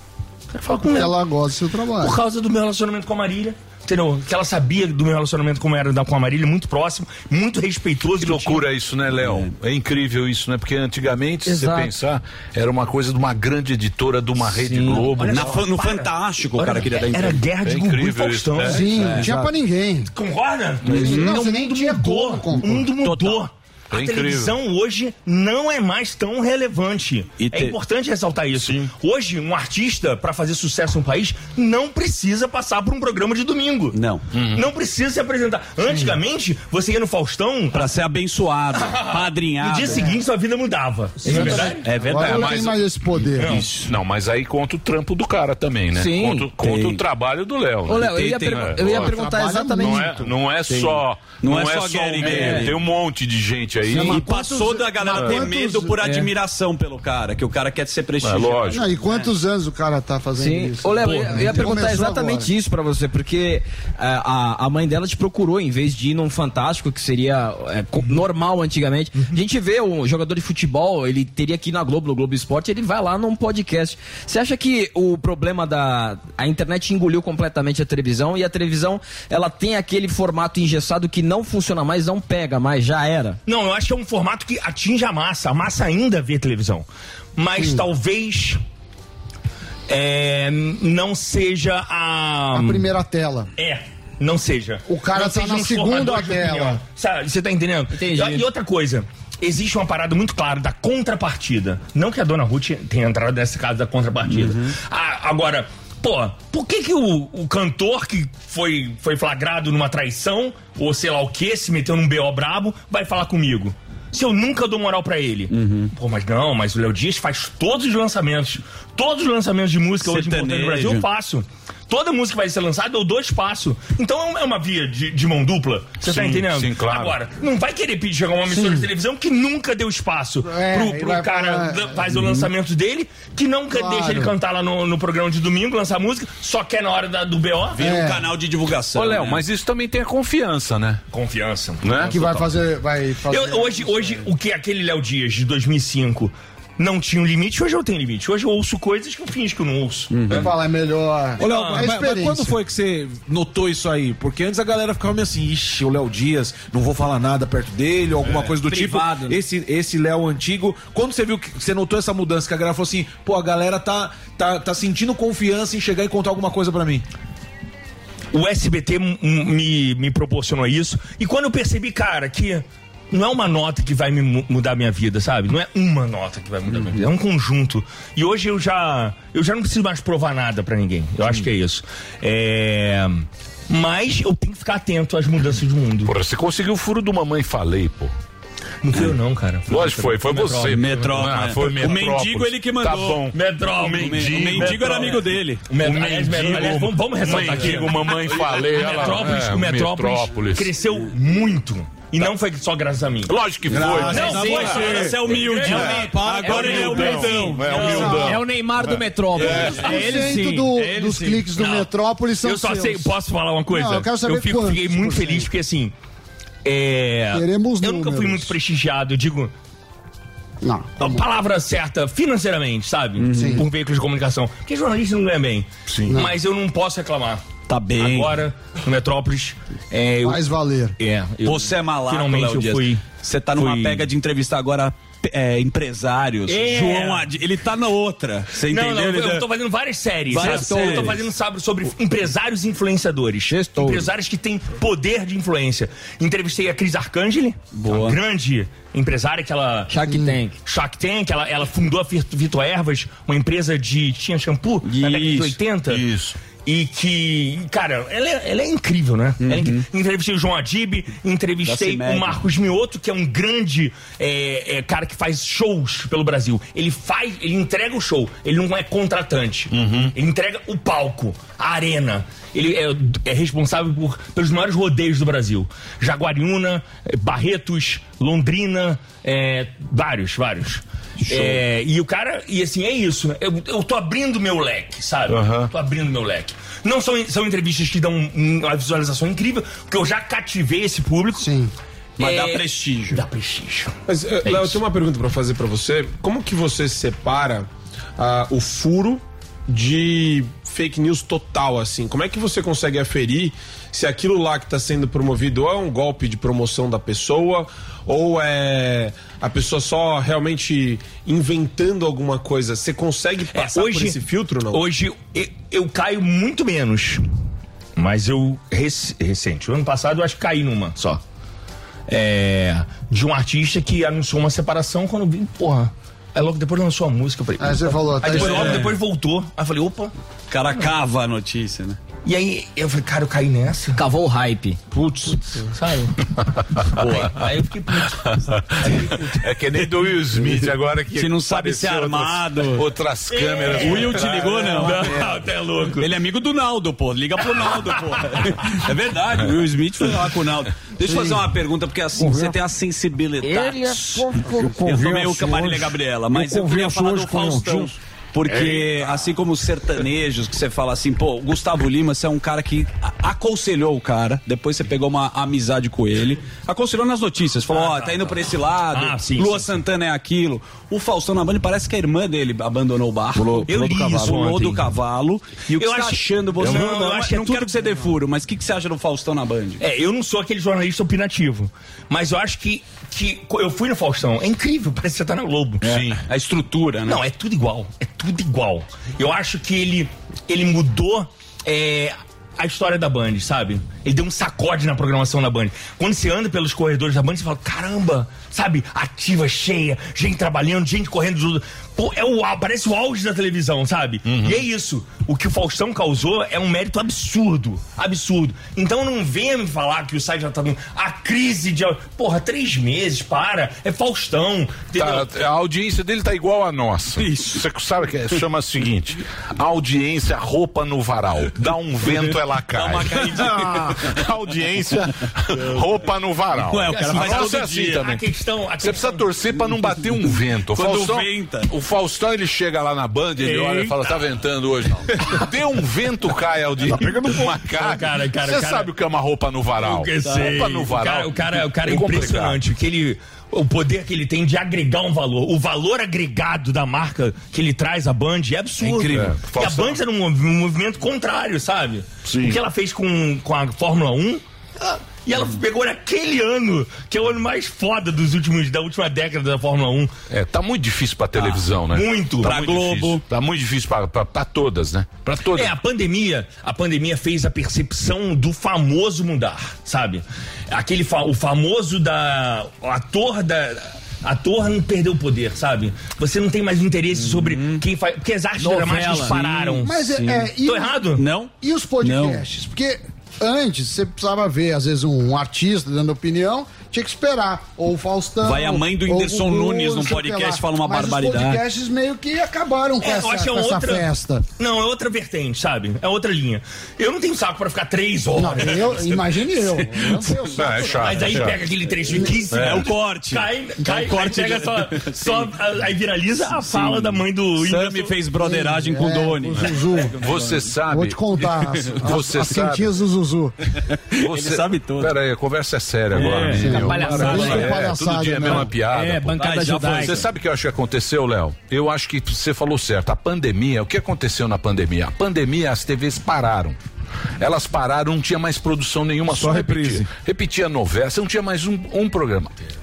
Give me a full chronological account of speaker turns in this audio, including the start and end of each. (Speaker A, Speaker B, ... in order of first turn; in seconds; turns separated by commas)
Speaker A: 0.5-1.2, Speaker B: 0.8-2.2, Speaker A: 2.0-8.6, Speaker C: 8.2-15.6, Speaker D: 9.2-9.5, Speaker E: 11.4-11.9, Speaker E: 14.7-15.0, Speaker D: 14.7-17.4, Speaker A: 15.1-18.8, Speaker C: 17.6-19.3, Speaker B: 18.6-20.1, Speaker D: 18.9-19.5, Speaker A: 20.1-34.0, Speaker B: 20.8-22.9, Speaker D: 20.9-21.4, Speaker D: 23.0-23.4, Speaker C: 23.9-24.6, Speaker D: 27.4-27.8, Speaker C: 28.5-28.9, Speaker D: 33.9-34.2, Speaker C: 34.3-34.7, Speaker A: 34.5-37.9, Speaker B: 35.9-36.1, Speaker D: 37.7-40.1, Speaker A: 38.8-41.9, Speaker D: 41.2-42.7, Speaker B: 41.3-43.6, Speaker C: 42.1-49.2, Speaker E: 45.9-46.5, Speaker D: 46.6-47.0, Speaker E: 47.9-50.0, Speaker D: 47.9-48.9, Speaker B: 49.0-50.3, Speaker C: 49.8-54.3, Speaker D: 50.7-52.7, Speaker E: 52.3-52.6, Speaker B: 53.9-56.1, Speaker D: 53.9-59.0, Speaker C: 55.1-55.5, Speaker C: 58.2-58.8, Speaker B: 58.7-62.5, Speaker E: 60.4-83.4, Speaker A: 83.5-88.6, Speaker B: 87.6-87.8, Speaker A: 89.9-92.9, Speaker B: 92.5-93.5, Speaker A: 93.6-137.8, Speaker B: 94.9-96.8, Speaker E: 97.9-98.4, Speaker D: 104.3-104.7, Speaker D: 115.5-115.9, Speaker D: 120.0-121.0, Speaker C: 126.0-127.2, Speaker B: 128.5-128.9, Speaker B: 130.4-132.5, Speaker B: 133.7-134.3, Speaker D: 137.7-139.4, Speaker B: 137.8-138.3, Speaker C: 138.9-141.0, Speaker A: 141.1-142.2, Speaker C: 141.8-142.5, Speaker B: 142.0-144.2, Speaker A: 143.3-150.4, Speaker D: 150.1-150.5, Speaker B: 150.3-152.6, Speaker A: 151.4-151.9, Speaker F: 151.4-167.0, Speaker D: 158.3-159.4, Speaker A: 168.3-186.1, Speaker C: 186.1-188.1, Speaker A: 188.8-190.9, Speaker C: 189.7-200.7, Speaker D: 190.7-193.3, Speaker A: 193.3-203.3, Speaker D: 193.8-195.6, Speaker D: 196.4-196.7, Speaker D: 197.2-197.9, Speaker C: 203.2-204.8, Speaker F: 203.7-207.6, Speaker D: 203.7-208.4, Speaker A: 204.1-208.3, Speaker C: 205.6-205.9, Speaker C: 206.7-208.4, Speaker B: 207.8-208.3, Speaker E: 208.3-209.5, Speaker D: 209.4-210.2, Speaker B: 209.4-213.1, Speaker F: 209.4-209.7, Speaker A: 209.8-210.3, Speaker E: 210.2-210.7, Speaker A: 211.4-215.9, Speaker B: 213.7-215.5, Speaker A: 216.6-219.5, Speaker B: 217.3-218.6, Speaker B: 220.6-221.2, Speaker A: 221.0-227.4, Speaker D: 223.2-223.7, Speaker B: 223.3-223.7, Speaker C: 225.9-226.2, Speaker B: 226.1-226.3, Speaker D: 227.7-228.4, Speaker A: 228.0-230.4, Speaker B: 230.2-231.0, Speaker A: 231.0-233.0, Speaker D: 231.4-239.4, Speaker A: 233.5-234.1, Speaker A: 236.5-237.3, Speaker A: 238.6-256.0, Speaker D: 240.3-241.2, Speaker E: 243.5-244.1, Speaker D: 247.7-248.2, Speaker E: 249.9-250.5, Speaker B: 250.1-250.4, Speaker D: 254.8-255.6, Speaker C: 255.8-256.4, Speaker A: 256.6-291.5, Speaker D: 259.4-259.8, Speaker D: 261.6-262.4, Speaker C: 269.7-270.1, Speaker D: 281.2-281.6, Speaker C: 285.3-285.7, Speaker B: 291.3-291.7, Speaker D: 292.2-293.2, Speaker A: 292.2-293.9, Speaker G: 294.1-314.9, Speaker A: 313.6-314.2, Speaker A: 314.7-317.2, Speaker A: 317.9-321.2, Speaker A: 322.1-330.1, Speaker B: 327.6-328.9, Speaker D: 328.2-328.9, Speaker D: 330.5-332.0, Speaker A: 332.2-334.0, Speaker E: 333.9-334.8, Speaker A: 335.5-336.1, Speaker D: 336.9-337.4, Speaker A: 337.1-338.2, Speaker C: 338.3-344.9, Speaker D: 341.1-342.8, Speaker A: 343.3-346.1, Speaker D: 343.7-345.2, Speaker D: 345.9-379.8, Speaker B: 351.1-351.4, Speaker B: 352.2-352.5, Speaker E: 353.4-354.1, Speaker B: 354.0-357.9, Speaker C: 358.6-358.9, Speaker A: 367.7-368.4, Speaker A: 368.9-369.7, Speaker A: 373.6-374.9, Speaker A: 375.7-377.9, Speaker A: 379.8-385.9, Speaker D: 385.8-387.2, Speaker C: 385.8-386.2, Speaker A: 387.0-415.3, Speaker C: 404.2-404.6, Speaker C: 414.9-428.2, Speaker D: 417.2-417.6, Speaker D: 422.2-424.1, Speaker D: 426.6-428.0, Speaker A: 427.0-429.2, Speaker C: 428.8-442.6, Speaker D: 430.7-431.7, Speaker A: 433.4-433.9, Speaker A: 437.8-438.9, Speaker A: 439.8-460.1, Speaker D: 440.2-440.5, Speaker C: 448.8-450.0, Speaker C: 452.2-452.6, Speaker C: 460.3-465.8, Speaker A: 461.9-462.5, Speaker D: 462.4-463.2, Speaker A: 465.5-480.1, Speaker D: 477.1-477.8, Speaker E: 478.6-479.4, Speaker D: 478.9-480.5, Speaker B: 479.8-481.1, Speaker A: 480.6-481.2, Speaker D: 481.1-481.5, Speaker B: 481.6-494.5, Speaker D: 482.0-482.4, Speaker D: 488.4-491.6, Speaker A: 493.0-499.0, Speaker B: 498.3-502.4, Speaker C: 500.6-501.6, Speaker A: 501.0-508.1, Speaker D: 502.1-505.5, Speaker C: 502.5-502.9, Speaker D: 506.6-510.6, Speaker B: 508.4-510.2, Speaker C: 510.2-511.4, Speaker B: 510.9-513.5, Speaker C: 512.0-512.9, Speaker D: 514.1-515.1, Speaker C: 514.2-526.8, Speaker D: 516.1-517.7, Speaker B: 516.4-518.7, Speaker A: 516.9-517.6, Speaker D: 519.3-520.2, Speaker E: 519.6-520.0, Speaker C: 527.4-532.5, Speaker F: 529.3-530.1